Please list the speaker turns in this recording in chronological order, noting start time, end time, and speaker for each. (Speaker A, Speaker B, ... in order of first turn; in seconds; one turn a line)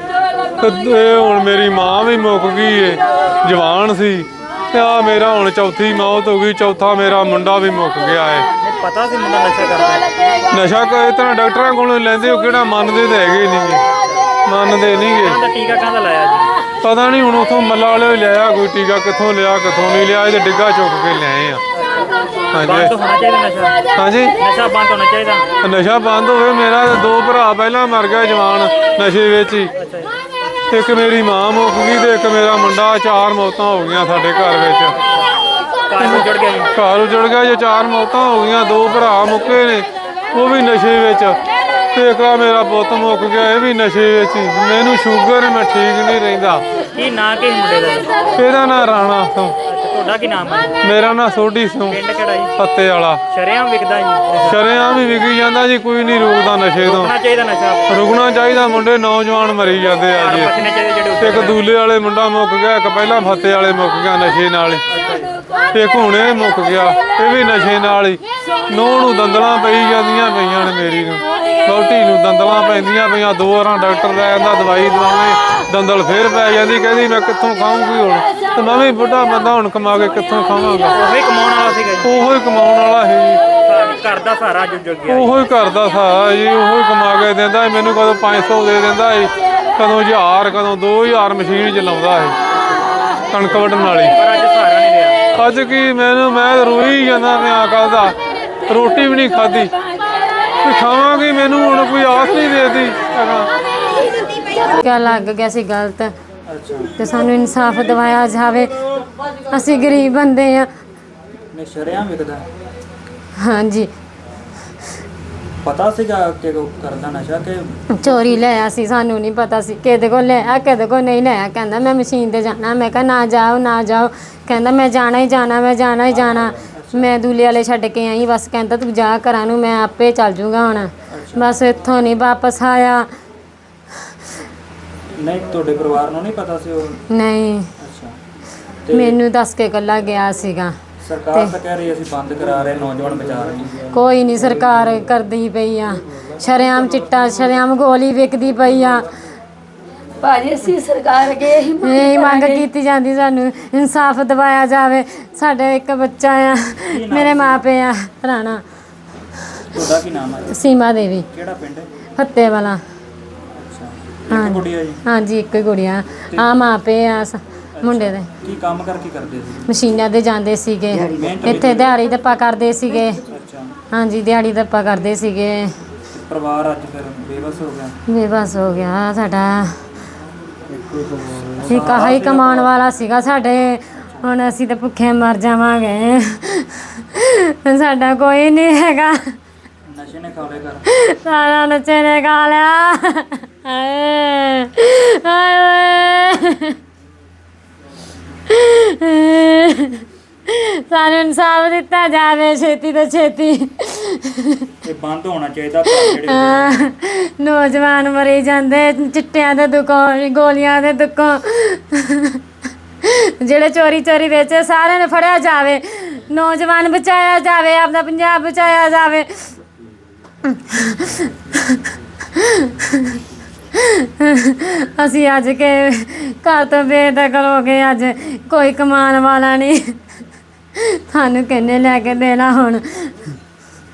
Speaker A: 0.6-8.5
Speaker B: 8.6-10.1
Speaker A: 10.5-13.8
Speaker B: 13.9-14.3
Speaker A: 14.4-15.4
Speaker B: 15.2-16.5
Speaker A: 16.8-21.6
Speaker B: 21.8-23.8
Speaker A: 22.5-22.9
Speaker A: 23.9-24.4
Speaker B: 24.4-25.5
Speaker A: 25.6-29.7
Speaker B: 29.8-30.1
Speaker A: 30.7-35.0
Speaker B: 35.0-35.3
Speaker B: 35.9-36.7
Speaker A: 36.0-41.4
Speaker A: 41.9-46.6
Speaker B: 47.0-48.2
Speaker A: 48.3-49.6
Speaker B: 49.7-50.8
Speaker A: 50.8-52.0
Speaker B: 51.9-52.5
Speaker A: 52.6-53.2
Speaker B: 53.3-54.6
Speaker A: 54.4-57.1
Speaker B: 56.8-57.9
Speaker A: 57.9-60.6
Speaker B: 60.2-61.6
Speaker A: 61.2-64.8
Speaker B: 64.9-65.3
Speaker A: 65.7-81.0
Speaker B: 80.9-82.1
Speaker A: 82.0-83.4
Speaker B: 83.7-85.3
Speaker A: 85.1-92.4
Speaker A: 93.3-94.2
Speaker B: 93.9-95.2
Speaker A: 95.3-98.2
Speaker A: 98.7-99.7
Speaker A: 100.6-103.5
Speaker C: 104.6-106.1
Speaker B: 106.5-106.9
Speaker C: 107.0-108.8
Speaker C: 109.5-110.7
Speaker B: 111.5-112.5
Speaker C: 113.4-113.9
Speaker B: 115.6-118.3
Speaker C: 117.9-133.1
Speaker B: 126.7-127.1
Speaker B: 131.1-131.5
Speaker B: 135.2-137.1
Speaker C: 137.1-137.7
Speaker B: 137.8-138.2
Speaker B: 138.9-139.2
Speaker C: 138.9-140.8
Speaker B: 141.0-143.9
Speaker C: 143.9-149.1
Speaker D: 150.2-152.7
Speaker C: 151.8-158.6
Speaker B: 156.9-157.6
Speaker B: 159.7-160.6
Speaker C: 160.5-161.3
Speaker B: 161.3-161.9
Speaker C: 162.2-162.8
Speaker B: 163.5-165.0
Speaker C: 164.3-168.3
Speaker B: 167.8-169.7
Speaker C: 169.7-173.2
Speaker B: 171.1-171.9
Speaker B: 173.3-173.7
Speaker C: 173.9-175.7
Speaker B: 176.1-178.0
Speaker C: 178.1-179.8
Speaker B: 181.3-182.7
Speaker C: 181.6-189.4
Speaker B: 189.9-190.8
Speaker C: 190.9-196.8
Speaker C: 198.5-204.7
Speaker B: 204.8-206.8
Speaker C: 205.9-212.4
Speaker C: 213.0-219.5
Speaker C: 220.5-223.2
Speaker C: 223.8-230.0
Speaker C: 230.8-233.2